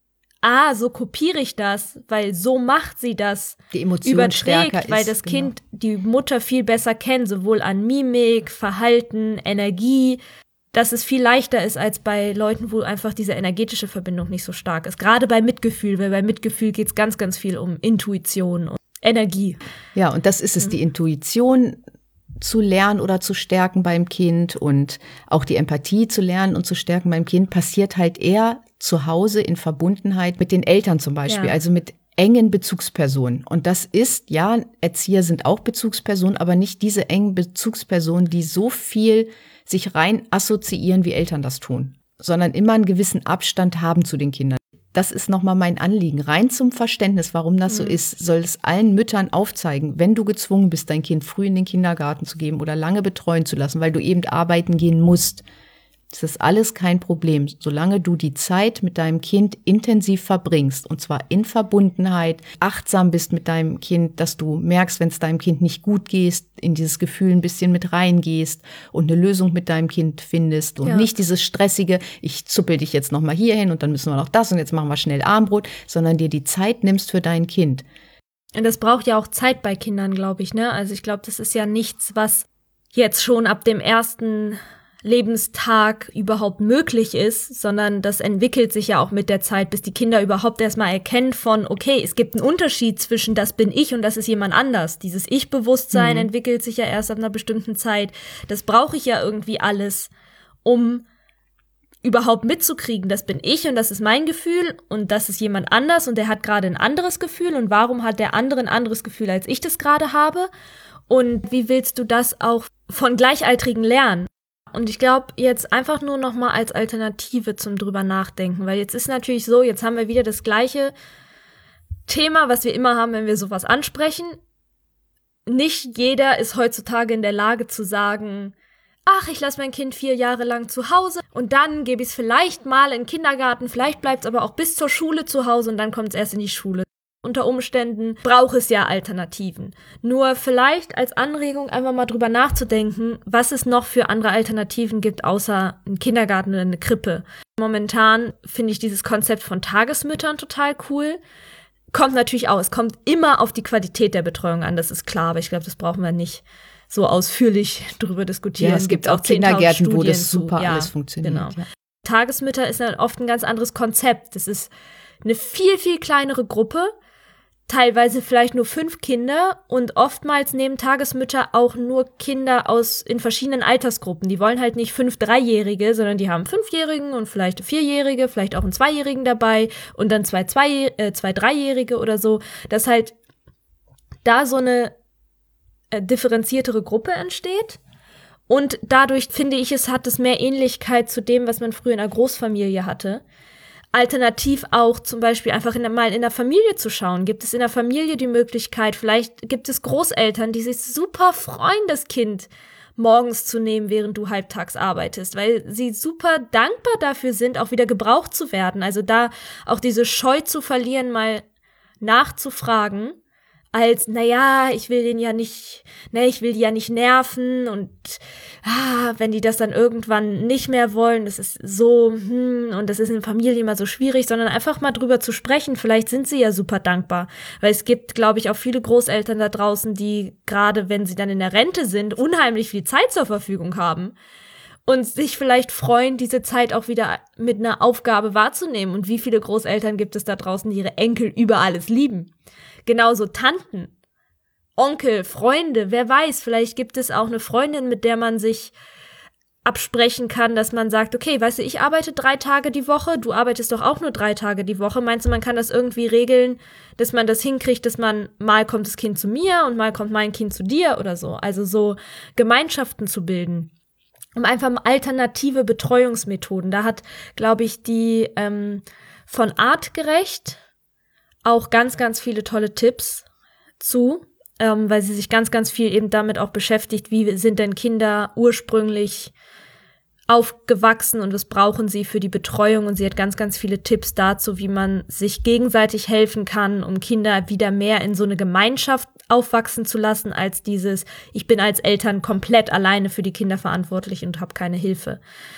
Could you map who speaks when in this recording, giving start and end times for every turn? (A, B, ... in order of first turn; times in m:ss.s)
0:00.4-0:10.2 A
0:03.7-0:05.5 B
0:10.7-0:19.6 A
0:20.0-0:21.8 B
0:22.4-0:55.4 B
0:31.3-0:31.6 A
0:47.7-0:48.0 A
0:56.1-1:17.8 B
1:18.6-1:40.1 A
1:35.9-1:36.3 B
1:40.6-1:41.0 A
1:42.0-1:50.5 A
1:51.1-2:00.9 A
2:02.1-2:04.4 A
2:05.5-2:08.5 A
2:09.1-2:31.2 A
2:31.9-2:44.7 A
2:38.6-2:41.6 B
2:45.2-2:46.9 A
2:47.7-3:03.2 A
3:04.2-3:05.0 A
3:05.9-3:07.8 A
3:08.5-3:13.2 A
3:13.9-3:31.4 A
3:32.0-3:33.2 A
3:33.7-3:54.2 A
3:54.9-4:02.3 A
4:02.9-4:03.9 A
4:04.8-4:08.7 A
4:09.6-4:23.7 A
4:24.4-4:30.6 A
4:31.4-4:33.3 A
4:33.8-4:39.3 A
4:40.3-4:55.2 A